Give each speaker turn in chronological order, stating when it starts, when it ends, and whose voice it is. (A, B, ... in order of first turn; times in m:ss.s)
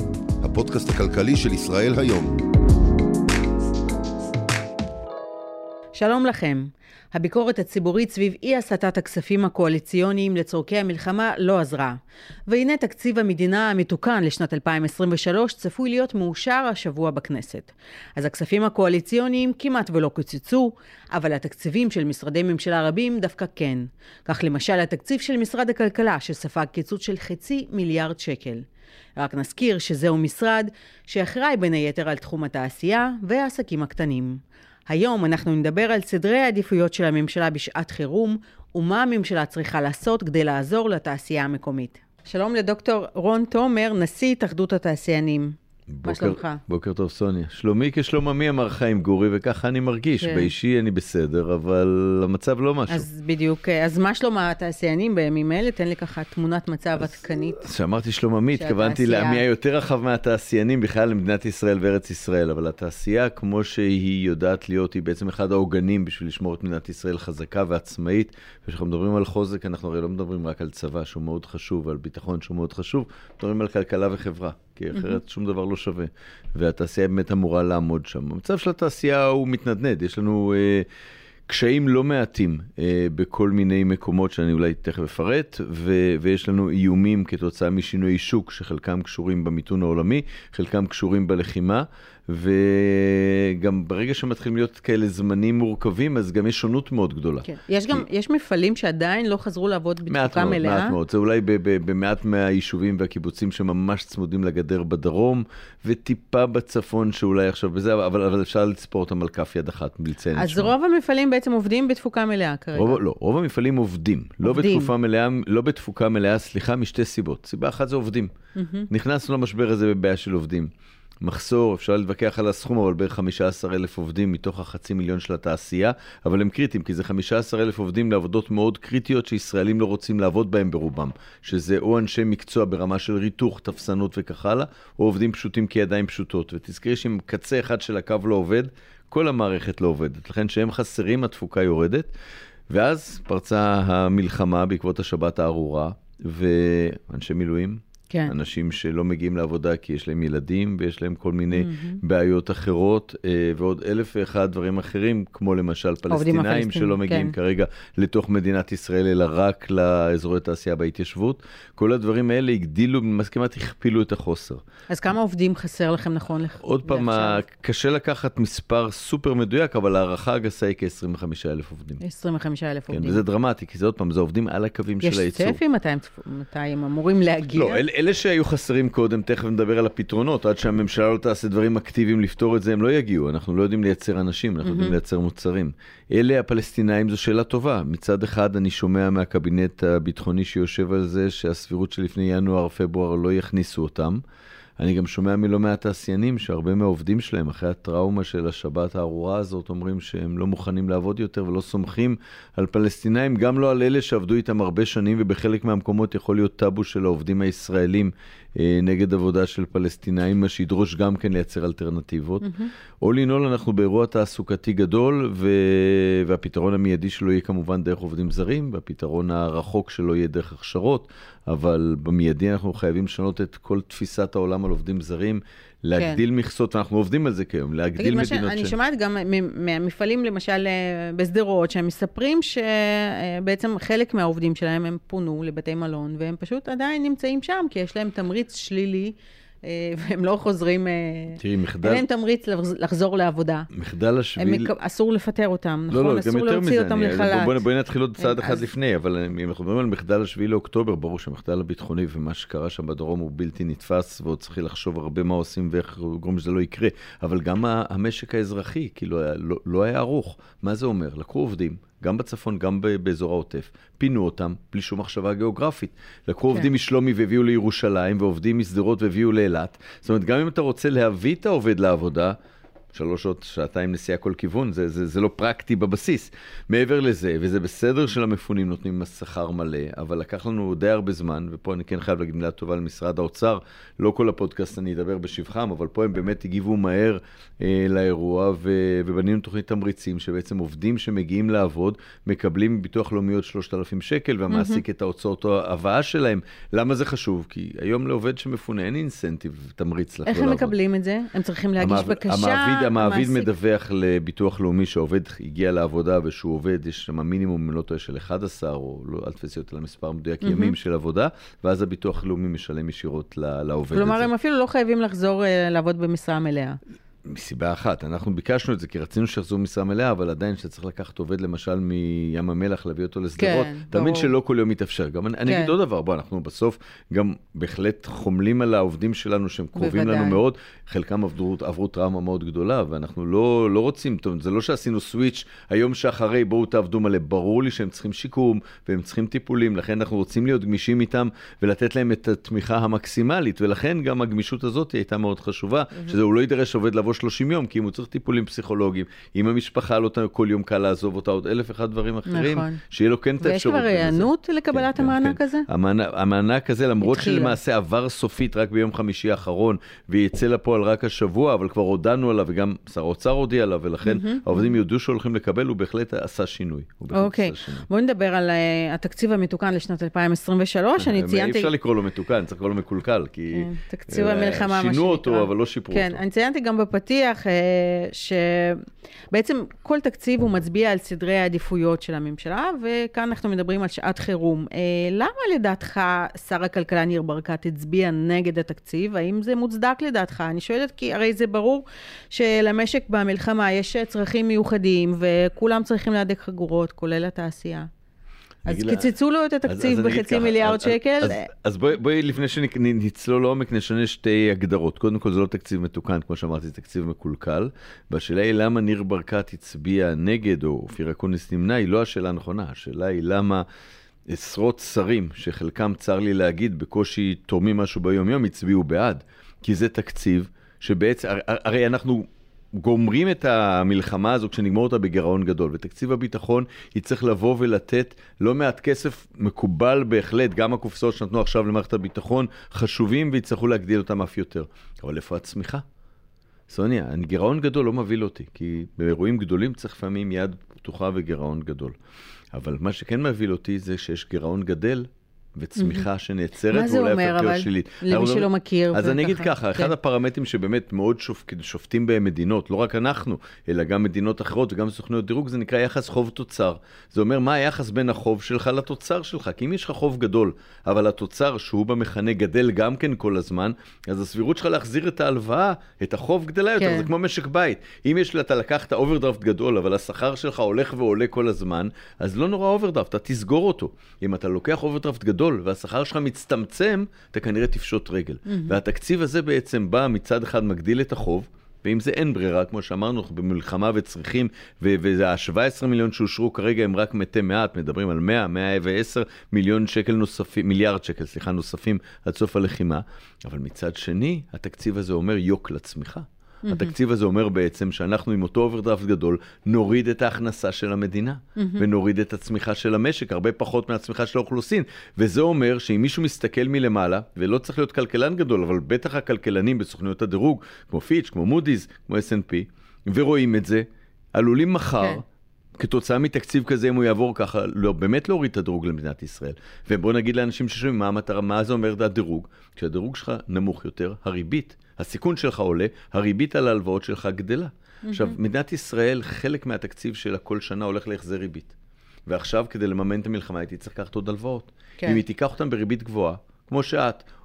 0:00.4-0:02.4 A
0:06.0-0:28.6 B
0:29.2-0:46.6 B
0:45.9-0:53.1 C
0:50.2-0:50.5 B
0:52.9-0:57.7 B
0:57.6-1:20.9 C
0:58.5-0:59.4 B
1:21.5-1:38.0 C
1:37.4-1:41.0 B
1:40.1-1:50.7 C
1:50.4-1:53.0 B
1:52.8-1:58.3 C
1:54.4-1:54.9 B
1:58.6-1:58.9 B
1:58.9-2:00.7 C
2:01.2-2:22.1 C
2:22.7-2:44.6 C
2:31.5-2:32.0 B
2:36.1-2:37.4 B
2:44.9-2:47.4 B
2:46.6-2:52.0 C
2:52.0-2:53.2 B
2:52.9-2:55.6 C
2:55.0-2:57.8 B
2:57.6-3:14.2 C
3:04.6-3:05.0 B
3:14.8-3:48.8 C
3:32.4-3:32.7 B
3:48.0-4:03.7 B
4:01.4-4:02.0 C
4:03.7-4:04.7 C
4:04.4-4:07.6 B
4:05.9-4:32.4 C
4:08.2-4:08.6 B
4:32.9-5:00.7 C
4:54.5-4:54.8 B
5:00.3-5:03.5 B
5:01.8-5:14.3 C
5:10.4-5:10.8 B
5:13.9-5:16.8 B
5:17.2-6:07.9 C
5:23.4-5:24.3 B
5:25.5-5:25.7 B
5:29.8-5:30.4 B
5:52.3-5:52.8 B
5:53.4-5:55.7 B
5:57.0-5:57.6 B
6:04.1-6:04.8 B
6:07.1-6:11.7 B
6:11.0-6:16.2 C
6:13.5-6:37.9 B
6:38.7-6:39.1 C
6:38.7-6:41.5 B
6:39.7-6:53.7 C
6:54.3-7:15.8 C
7:16.7-7:22.0 C
7:22.5-8:35.2 C
7:25.8-7:26.0 B
7:26.7-7:29.9 B
7:46.8-7:47.1 B
7:58.5-7:58.8 B
8:16.6-8:16.9 B
8:21.6-8:21.8 B
8:35.8-8:51.7 C
8:48.0-8:48.4 B
8:52.3-8:57.3 C